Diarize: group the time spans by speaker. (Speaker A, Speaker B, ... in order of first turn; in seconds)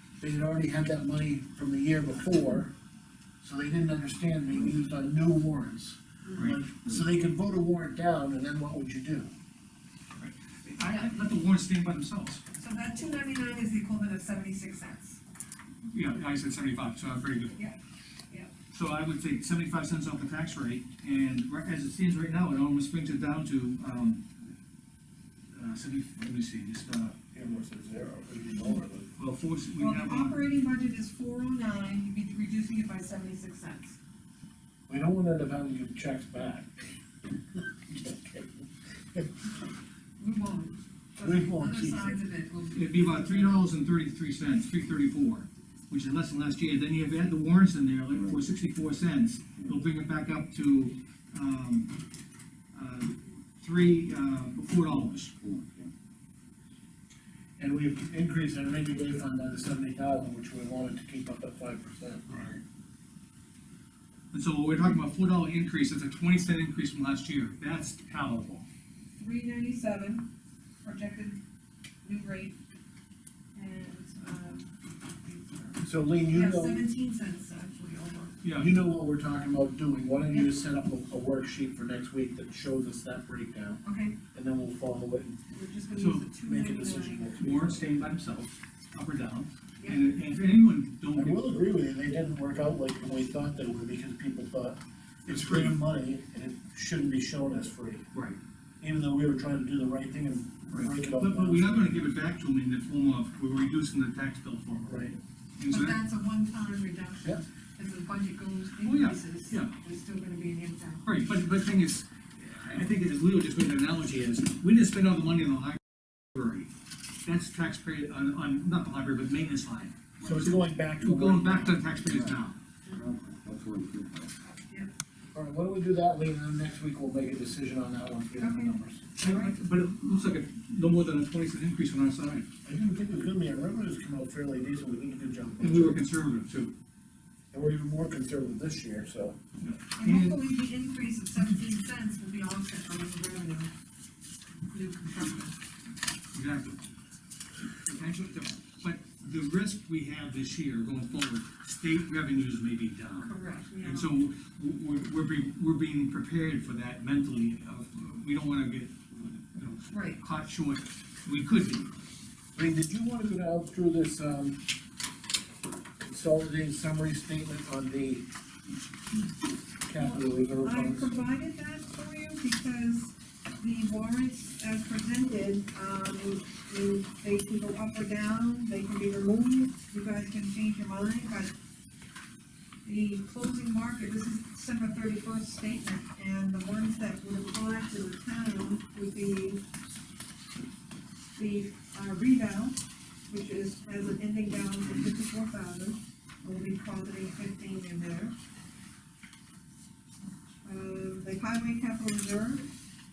Speaker A: 0.2-2.7, 3.4-9.3, 27.3-29.1, 34.9-36.9, 37.9-38.5, 41.2-42.2, 57.6-62.5, 75.8-76.8, 78.5-83.8, 84.3-85.4, 86.3-88.0, 91.1-98.0, 98.8-102.0, 104.9-105.1, 120.2-121.8, 125.3-129.1, 132.6-136.0, 137.5-139.4, 162.5-164.6, 166.0-168.3, 169.8-171.2
Speaker B: 10.2-12.4, 15.9-17.6, 18.7-24.2, 25.5-27.2, 29.2-30.4, 42.7-52.0, 52.7-55.5, 64.3-68.7, 78.4-78.7, 86.0-86.3, 87.4-91.5, 95.2-95.8, 98.1-98.4, 100.7-106.0, 108.8-109.8, 111.0-116.7, 117.2-122.6, 129.2-132.4, 135.6-136.8, 139.6-140.4, 146.3-146.8, 147.8-161.9
Speaker C: 12.6-15.2, 29.8-34.0, 40.2-43.7, 69.2-70.3, 70.8-71.4, 72.0-72.6, 73.5-78.4, 83.8-84.2, 85.5-87.3, 89.8-90.0, 105.7-111.1, 128.4-129.5, 140.0-143.7, 144.7-145.6, 153.2-154.1, 159.9-160.2, 169.9-181.5, 182.8-189.6, 191.3-198.3, 200.6-202.7
Speaker D: 54.8-55.9, 122.0-122.4, 123.0-124.3